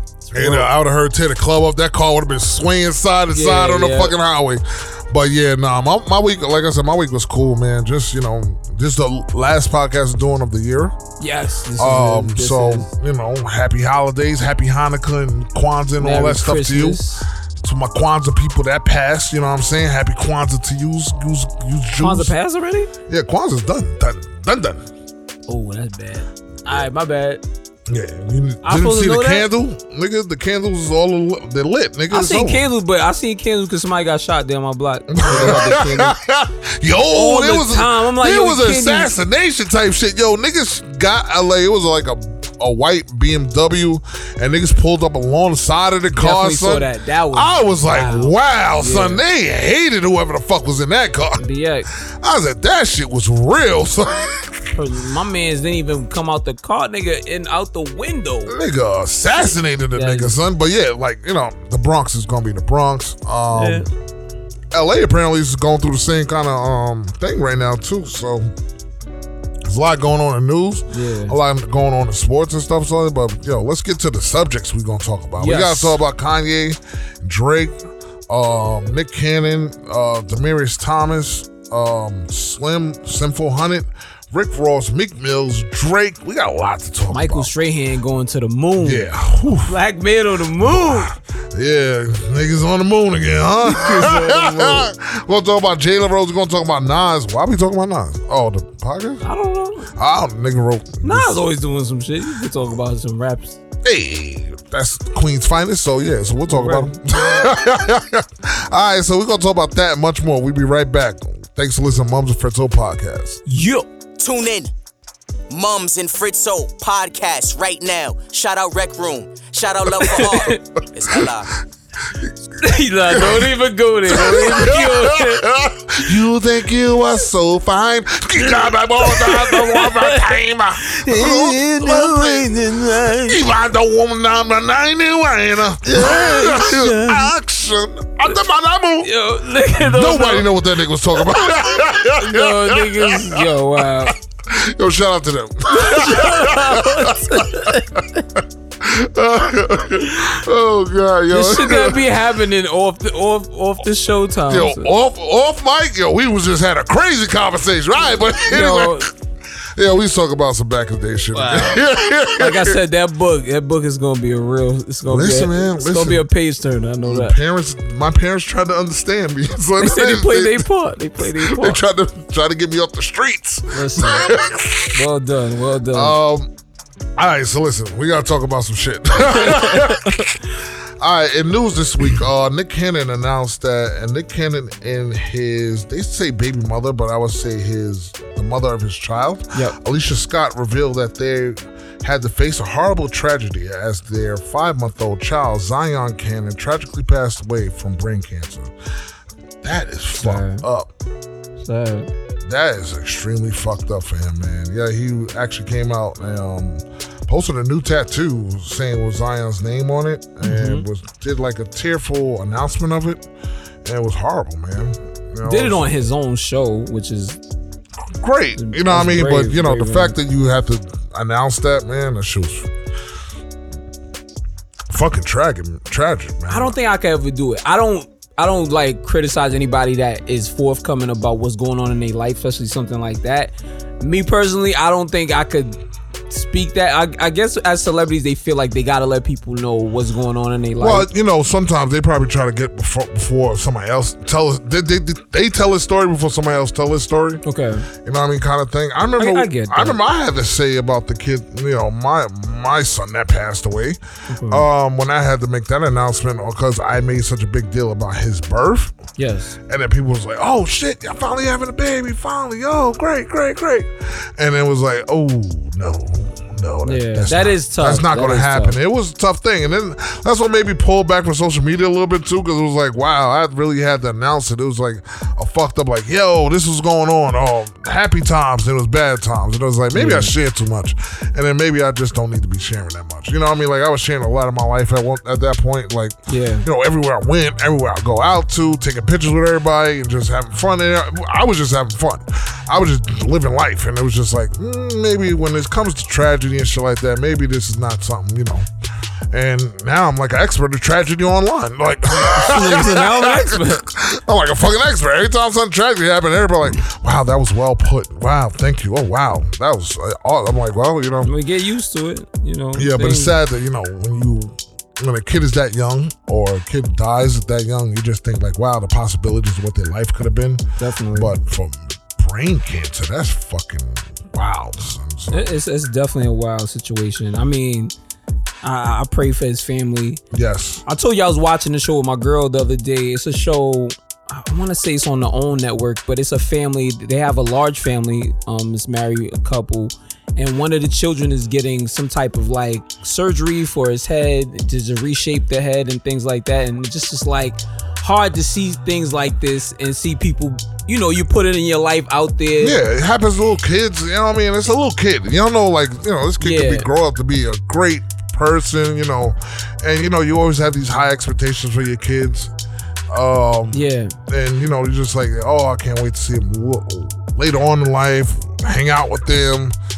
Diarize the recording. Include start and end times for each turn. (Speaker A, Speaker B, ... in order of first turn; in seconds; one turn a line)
Speaker A: 0.3-0.7
Speaker B: 0.3-11.0
Speaker A: 3.3-4.2
Speaker A: 11.2-12.9
Speaker B: 11.8-22.3
Speaker A: 16.0-17.2
Speaker A: 22.0-22.9
Speaker B: 23.1-24.9
Speaker A: 25.5-27.4
Speaker B: 27.9-32.6
Speaker A: 28.6-29.5
Speaker A: 32.1-36.2
Speaker B: 35.1-51.5
Speaker A: 37.1-39.1
Speaker A: 46.2-49.2
Speaker A: 51.4-51.9
Speaker B: 52.1-54.7
Speaker A: 54.7-58.5
Speaker B: 58.5-63.9
Speaker A: 60.0-60.4
Speaker A: 63.5-63.9
Speaker B: 64.7-68.5
Speaker B: 69.7-87.5
Speaker A: 70.9-71.4
Speaker A: 75.4-76.0
Speaker A: 87.1-89.1
Speaker B: 88.8-89.8
Speaker A: 89.7-91.1
Speaker B: 90.6-99.2
Speaker A: 93.6-94.9
Speaker A: 99.2-99.9
Speaker B: 100.0-101.4
Speaker A: 101.0-103.6
Speaker B: 103.8-113.4
Speaker A: 106.5-107.0
Speaker A: 113.5-113.9
Speaker C: 114.2-114.7
Speaker C: 115.5-121.6
Speaker A: 120.0-120.6
Speaker A: 122.6-125.5
Speaker B: 123.1-123.5
Speaker B: 124.1-132.5
Speaker A: 128.4-133.4
Speaker B: 133.2-139.1
Speaker A: 135.9-137.3
Speaker A: 139.0-140.5
Speaker B: 139.8-152.1
Speaker A: 142.1-144.2
Speaker A: 145.7-148.0
Speaker A: 151.3-154.9
Speaker B: 154.5-159.1
Speaker A: 158.5-159.1
Speaker B: 159.8-162.8
Speaker A: 161.3-161.8
Speaker A: 162.4-167.4
Speaker B: 165.1-166.3
Speaker B: 167.0-170.7
Speaker A: 169.8-171.8
Speaker B: 171.2-175.0
Speaker A: 173.7-174.4
Speaker A: 174.9-176.2
Speaker B: 175.9-176.5
Speaker B: 177.2-180.3
Speaker A: 179.5-180.3
Speaker B: 181.0-198.7
Speaker B: 199.6-200.9
Speaker A: 200.2-200.6
Speaker A: 201.6-202.1
Speaker B: 202.4-213.2
Speaker A: 210.4-210.8
Speaker B: 213.8-215.9
Speaker A: 215.4-217.4
Speaker B: 218.2-222.7
Speaker A: 218.6-220.2
Speaker B: 224.9-226.8
Speaker A: 226.5-235.8
Speaker A: 236.3-241.1
Speaker B: 240.8-247.4
Speaker A: 247.4-247.9
Speaker B: 248.0-259.0
Speaker A: 249.2-250.0
Speaker A: 254.3-254.7
Speaker A: 259.2-259.6
Speaker B: 259.7-298.7
Speaker A: 266.9-268.8
Speaker A: 279.9-280.3
Speaker A: 286.3-286.7
Speaker B: 299.3-311.3
Speaker A: 302.2-303.9
Speaker A: 311.2-313.4
Speaker B: 312.8-325.5
Speaker A: 320.8-321.3
Speaker A: 325.3-327.9
Speaker A: 328.6-330.2
Speaker B: 330.3-330.8
Speaker A: 330.9-352.8
Speaker B: 352.6-362.5
Speaker A: 356.4-356.9
Speaker B: 363.1-369.8
Speaker A: 363.7-364.1